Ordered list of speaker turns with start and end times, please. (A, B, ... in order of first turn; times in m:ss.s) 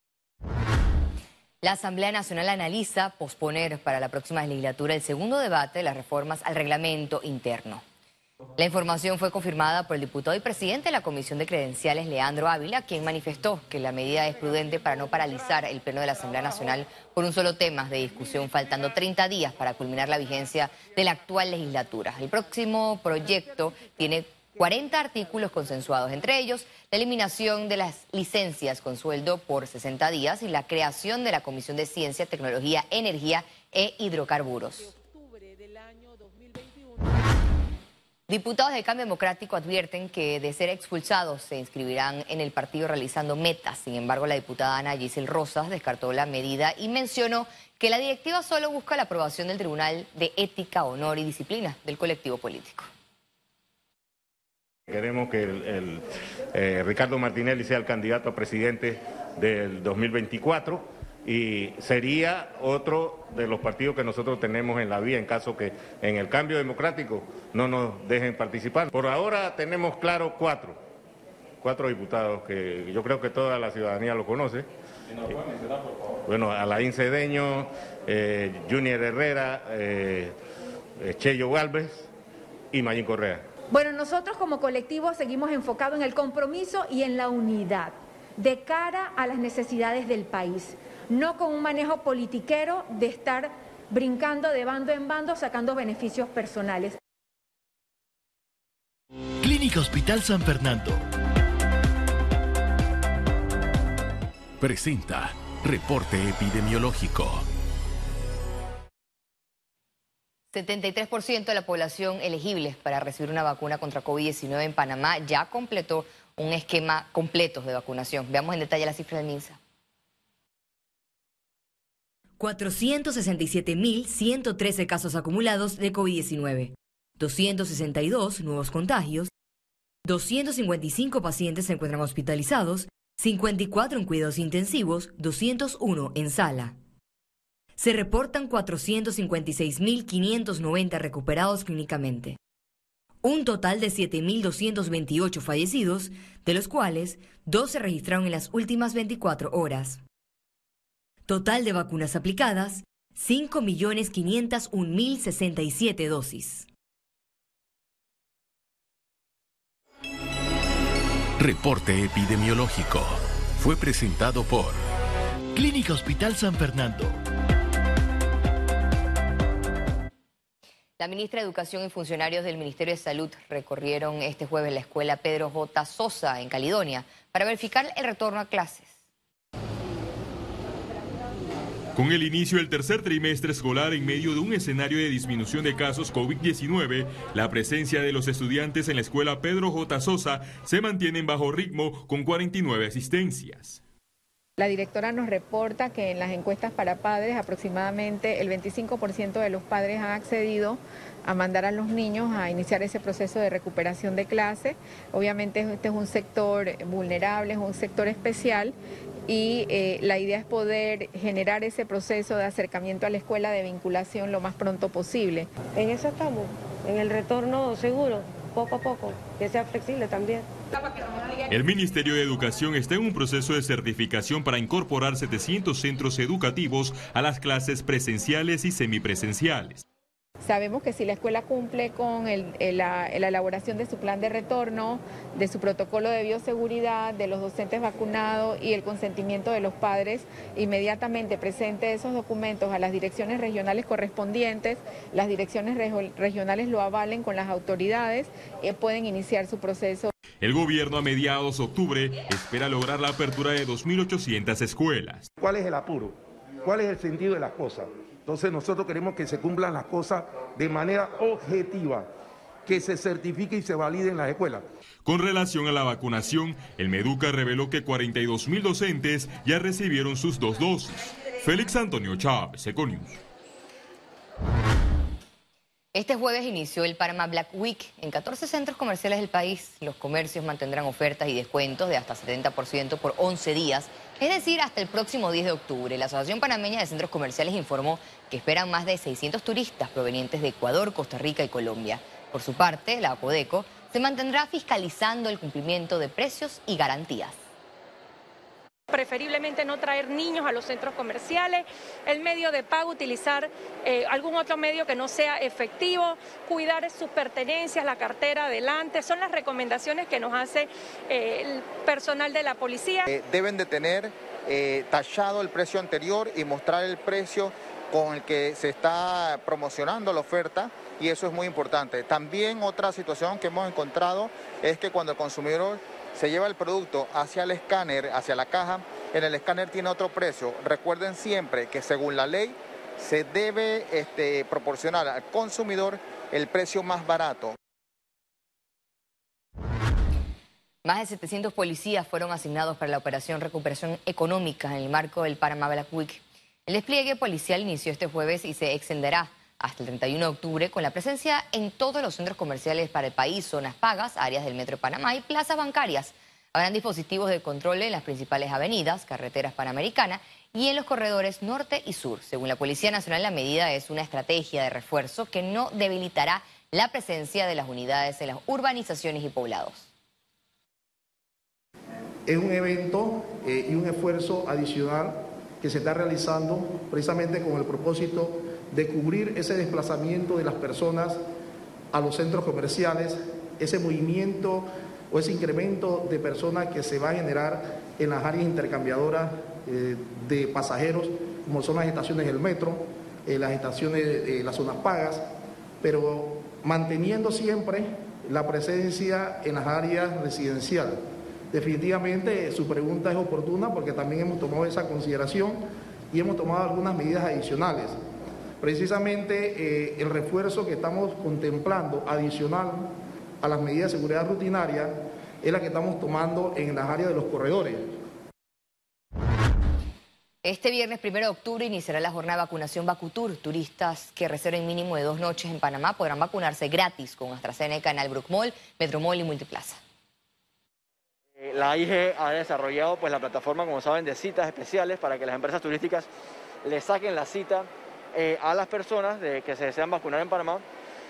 0:01.6-0:07.8 A
0:08.6-0:34.9 A
0:38.3-0:52.9 A
0:54.9-0:56.0 B
0:56.5-1:10.8 B
1:11.6-1:14.6 B
1:16.2-1:20.3 B
1:21.0-1:22.1 B
1:22.7-1:23.4 B
1:23.7-1:37.0 C
1:39.4-1:41.0 D
1:44.6-1:47.4 D
1:50.5-1:59.6 A
2:02.4-2:09.3 A
2:10.0-2:16.8 A
2:17.8-2:22.4 A
2:23.2-2:30.0 A
2:31.3-2:36.7 A
2:41.4-2:44.8 D
2:45.5-2:47.2 D
2:51.0-2:59.0 A
3:02.0-3:13.8 E
3:14.6-3:28.7 F
3:29.3-3:35.5 F
3:35.8-3:40.4 G
3:41.5-3:49.8 E
3:50.4-4:10.1 F
4:10.4-4:15.3 E
4:15.5-4:16.1 H
4:16.6-4:22.0 H
4:22.7-4:24.6 H
4:25.0-4:33.2 E
4:35.9-4:57.4 A
4:58.9-5:13.0 I
5:13.1-5:37.5 J
5:40.8-6:09.9 A
6:12.3-6:21.2 K
6:21.9-6:35.2 K
6:35.8-6:41.0 K
6:41.5-6:48.0 K
6:48.6-6:57.9 K
7:00.4-7:09.8 A
7:11.4-7:16.1 L
7:16.6-7:20.6 L